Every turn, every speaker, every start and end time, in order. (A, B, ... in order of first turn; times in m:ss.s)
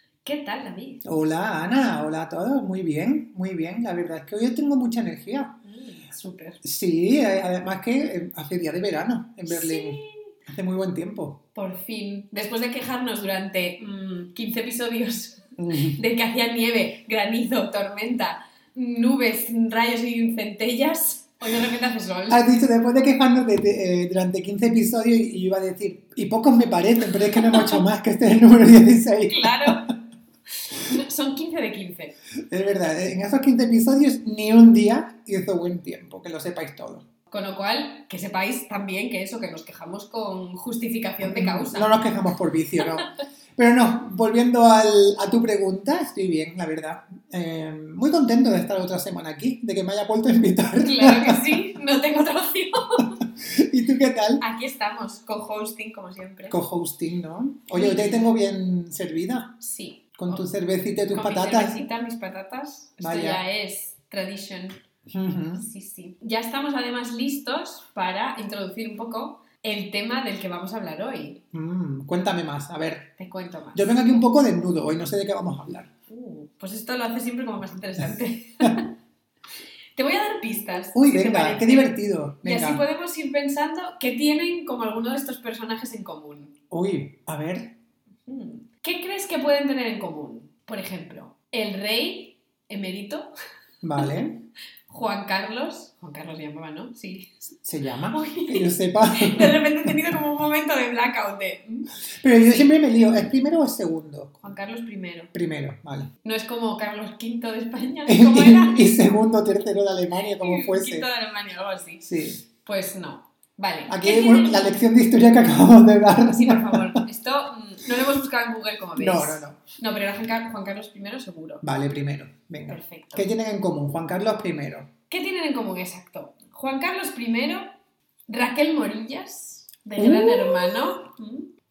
0:00.2-0:01.0 A
0:01.0-0:05.6 B
0:05.6-0:06.6 A
0:06.6-0:11.4 B
0:09.4-0:10.3 A
0:11.5-0:22.5 A
0:15.6-0:16.0 B
0:22.3-0:29.8 B
0:27.4-0:27.8 A
0:29.3-0:29.9 A
0:30.7-0:32.2 A
0:32.5-0:37.0 B
0:37.3-0:42.0 A
0:41.2-0:51.5 B
0:50.8-0:53.2 A
0:53.4-0:54.4 B
0:54.4-0:56.6 A
0:56.5-0:59.6 B
0:57.7-0:58.3 A
0:59.6-1:00.4 A
1:00.2-1:01.9 B
1:01.1-1:04.8 A
1:03.0-1:03.4 B
1:05.1-1:05.6 B
1:05.6-1:11.4 A
1:11.5-1:13.1 B
1:13.2-1:14.2 A
1:13.7-1:15.9 B
1:16.1-1:18.9 A
1:20.0-1:26.6 A
1:20.9-1:22.8 B
1:26.7-1:27.7 B
1:28.3-1:33.3 A
1:33.8-1:34.4 B
1:34.9-1:37.6 A
1:37.6-1:39.9 B
1:38.1-1:41.9 A
1:42.2-1:44.4 B
1:44.4-1:45.3 A
1:45.3-1:46.1 B
1:46.2-1:48.9 A
1:48.0-1:51.1 B
1:50.2-1:52.1 A
1:52.0-1:52.4 B
1:52.6-1:54.7 A
1:53.9-1:57.0 B
1:56.2-2:01.6 A
1:59.0-1:59.6 B
2:01.6-2:04.9 B
2:02.7-2:03.2 A
2:05.1-2:07.7 A
2:08.3-2:11.5 A
2:10.0-2:10.9 B